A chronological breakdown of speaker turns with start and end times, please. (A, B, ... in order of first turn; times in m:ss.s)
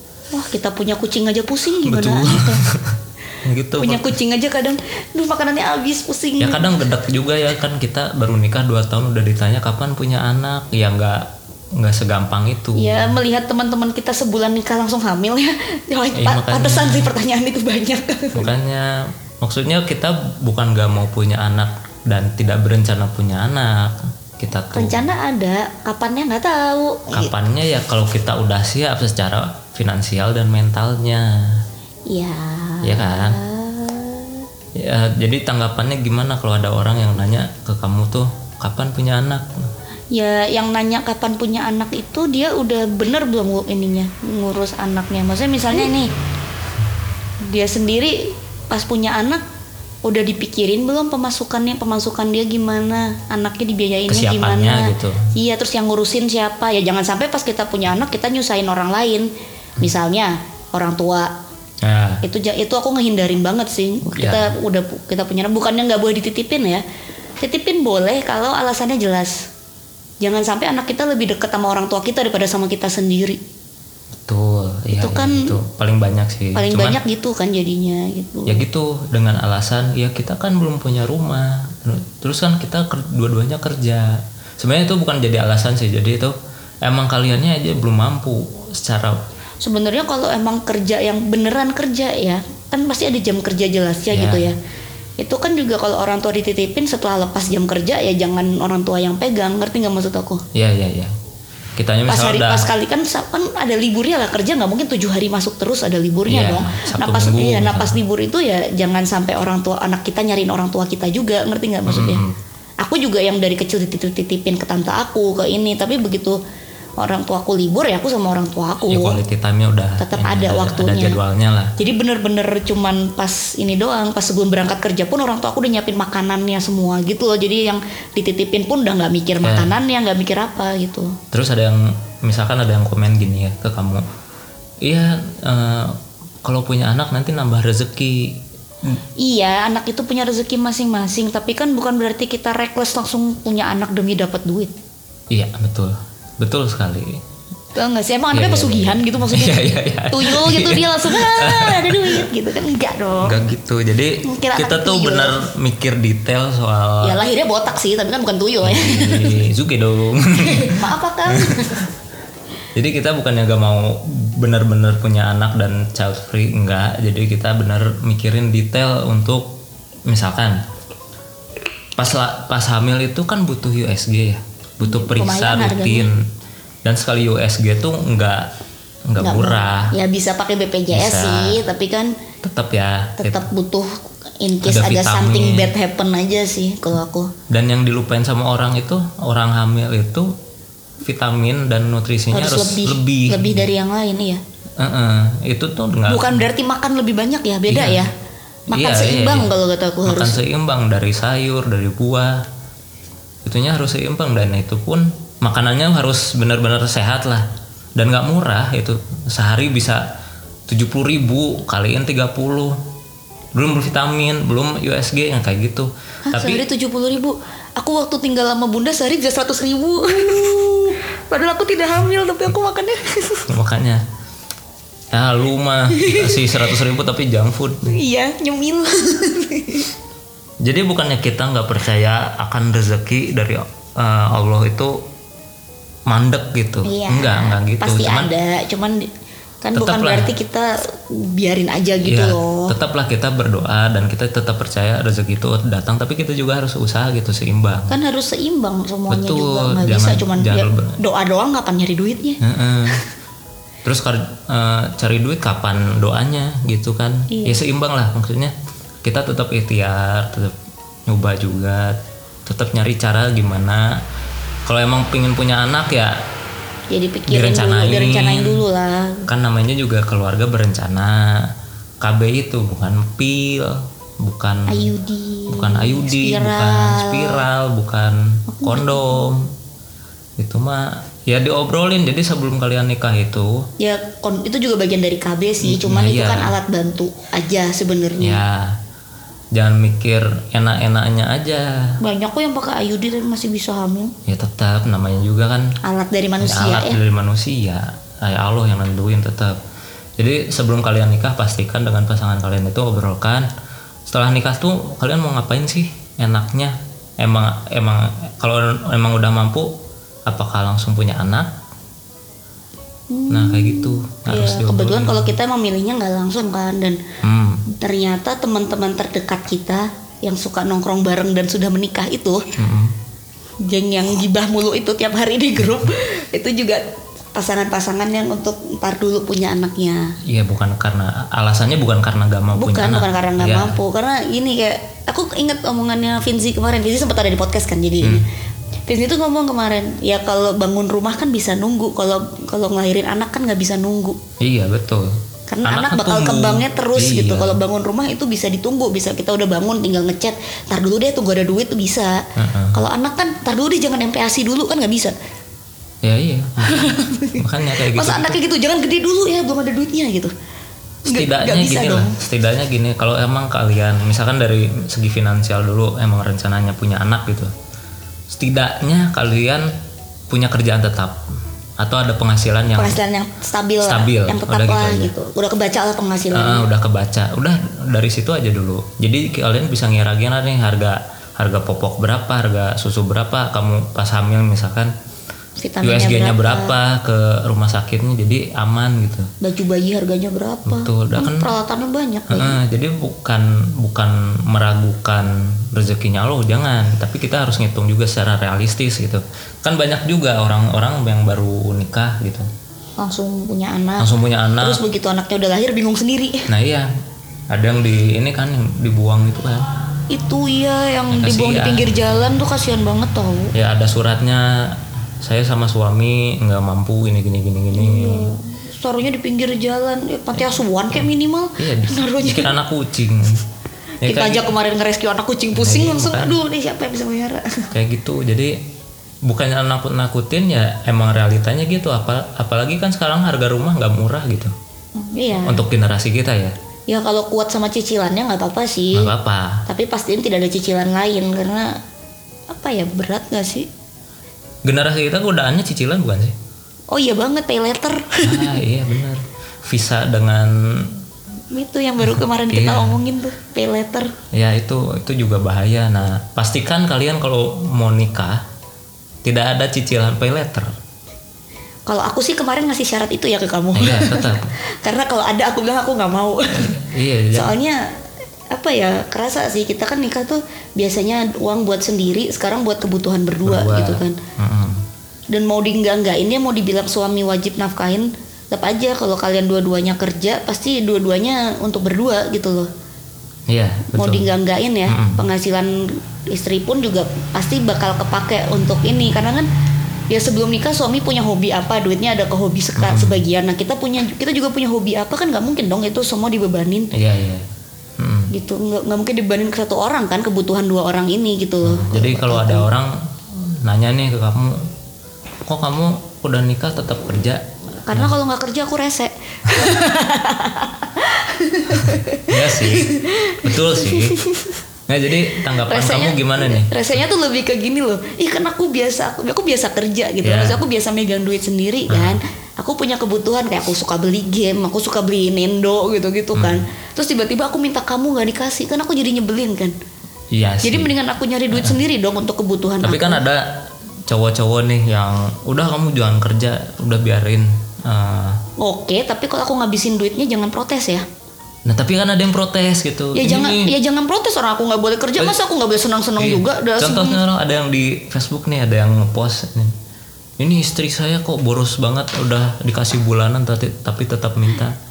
0:00.3-0:02.6 A
0:01.8-0:04.1 B
0:03.8-0:06.6 A
0:06.4-0:13.2 B
0:12.7-0:18.5 A
0:16.1-0:17.1 B
0:18.3-0:25.0 B
0:24.7-0:27.4 A
0:27.1-0:31.6 B
0:32.1-0:34.4 A
0:32.8-0:33.4 B
0:34.8-0:39.5 B
0:40.1-0:46.1 A
0:47.4-0:49.4 A
0:50.0-1:01.3 A
0:54.1-0:55.3 B
1:01.8-1:02.2 B
1:02.2-1:06.8 A
1:04.1-1:04.5 B
1:07.4-1:09.5 A
1:10.2-1:13.4 A
1:14.2-1:17.0 B
1:14.9-1:15.6 A
1:16.5-1:18.6 A
1:18.5-1:29.2 B
1:29.6-1:34.6 A
1:34.1-1:34.5 B
1:35.2-1:40.4 A
1:40.5-1:41.1 B
1:41.8-1:42.7 B
1:42.1-1:52.2 A
1:46.3-1:48.0 B
1:51.8-1:52.4 B
1:52.8-1:56.4 A
1:57.0-1:59.2 A
1:58.8-2:01.7 B
2:00.0-2:01.2 A
2:01.8-2:11.2 A
2:09.4-2:09.7 B
2:11.3-2:14.0 B
2:14.8-2:18.4 B
2:19.2-2:24.7 A
2:25.3-2:27.2 B
2:27.8-2:33.3 A
2:28.3-2:32.2 B
2:33.2-2:37.2 B
2:34.2-2:35.5 A
2:37.0-2:39.4 A
2:38.6-2:41.7 B
2:40.4-2:41.9 A
2:42.7-2:50.6 B
2:52.0-2:56.2 B
2:54.8-2:56.1 A
2:56.8-2:58.5 B
2:59.1-2:59.9 B
2:59.2-3:02.1 A
3:00.9-3:01.6 B
3:02.4-3:03.4 B
3:03.2-3:03.9 A
3:04.4-3:07.3 A
3:04.6-3:05.7 B
3:07.5-3:10.3 B
3:11.0-3:13.7 B
3:12.3-3:14.4 A
3:14.8-3:16.4 B
3:16.1-3:18.1 A
3:17.7-3:18.0 B
3:18.7-3:20.4 A
3:18.7-3:19.5 B
3:20.0-3:22.4 B
3:23.4-3:30.0 B
3:30.7-3:32.8 B
3:33.5-3:36.6 B
3:36.3-3:43.5 A
3:43.5-3:44.0 B
3:45.1-3:48.0 B
3:45.9-3:46.6 A
3:47.8-3:49.9 A
3:50.6-3:55.0 B
3:56.1-3:58.3 B
3:56.8-3:59.0 A
3:59.6-4:02.7 A
3:59.7-4:00.3 B
4:02.0-4:08.0 B
4:07.9-4:12.4 A
4:09.1-4:11.0 B
4:12.4-4:13.0 B
4:13.8-4:20.5 B
4:17.3-4:17.6 A
4:21.1-4:24.0 B
4:24.6-4:26.2 B
4:26.9-4:29.3 A
4:27.3-4:28.6 B
4:29.3-4:31.5 B
4:32.0-4:34.9 B
4:34.7-4:37.4 A
4:35.5-4:39.5 B
4:38.6-4:39.2 A
4:40.4-4:43.6 B
4:43.8-4:48.4 A
4:45.6-4:46.5 B
4:48.2-4:48.7 B
4:49.5-4:51.7 B
4:52.0-4:54.1 A
4:54.2-4:55.7 B
4:55.8-4:57.0 A
4:56.4-4:59.6 B
5:00.2-5:03.5 B
5:04.1-5:09.7 B
5:10.3-5:11.6 B
5:13.1-5:17.0 A
5:13.3-5:15.3 B
5:17.2-5:17.6 B
5:17.8-5:22.4 A
5:22.6-5:22.9 B
5:23.6-5:30.1 A
5:30.3-5:33.8 B
5:32.5-5:38.2 A
5:38.0-5:38.3 B
5:38.9-5:44.2 A
5:44.4-5:47.6 B
5:45.5-5:55.1 A
5:52.4-5:52.8 B
5:56.0-5:58.4 B
5:56.7-6:00.3 A
6:01.0-6:02.2 A
6:01.0-6:07.5 B
6:08.3-6:09.7 B
6:10.3-6:11.2 B
6:11.8-6:13.0 B
6:12.8-6:16.7 A
6:13.8-6:15.1 B
6:16.3-6:24.9 B
6:25.6-6:26.7 A
6:25.8-6:29.3 B
6:29.4-6:32.6 A
6:30.6-6:31.5 B
6:32.3-6:42.5 B
6:43.0-6:46.5 A
6:44.0-6:44.8 B
6:46.5-6:46.9 B
6:47.5-6:49.7 B
6:50.1-6:53.5 A
6:51.1-6:52.1 B
6:53.5-6:58.3 B
6:57.8-7:02.5 A
7:01.6-7:03.4 B
7:04.0-7:04.5 B
7:04.0-7:07.7 A
7:05.5-7:06.4 B
7:07.7-7:08.6 B
7:09.2-7:14.5 B
7:15.0-7:15.6 A
7:15.4-7:16.6 B
7:16.9-7:19.1 A
7:18.9-7:19.6 B
7:19.7-7:21.7 A
7:22.5-7:23.7 A
7:24.6-7:26.4 B
7:26.9-7:28.6 A
7:28.2-7:31.0 B
7:31.5-7:34.1 A
7:32.0-7:33.0 B
7:34.3-7:38.4 B
7:39.2-7:40.7 B
7:41.8-7:47.8 A
7:43.7-7:44.5 B
7:46.5-7:47.5 B
7:48.5-7:54.2 A
7:53.4-7:54.8 B
7:55.3-8:02.7 A
8:03.5-8:04.3 B
8:03.9-8:09.5 A
8:04.9-8:05.2 B
8:10.1-8:16.9 A
8:12.8-8:13.2 B
8:16.9-8:17.4 B
8:18.0-8:18.3 B
8:18.3-8:22.7 A
8:21.6-8:24.6 B
8:25.4-8:28.1 B
8:27.8-8:34.6 A
8:31.7-8:34.2 B
8:34.9-8:36.8 B
8:35.6-8:49.7 A
8:40.2-8:40.6 B
8:41.9-8:42.2 B
8:46.3-8:46.6 B
8:50.3-8:50.9 B
8:50.6-8:53.2 A
8:51.5-8:51.8 B
8:52.8-8:58.4 B
8:58.6-9:01.0 A
9:01.6-9:03.7 B
9:03.1-9:07.2 A
9:06.2-9:09.7 B
9:10.4-9:14.8 B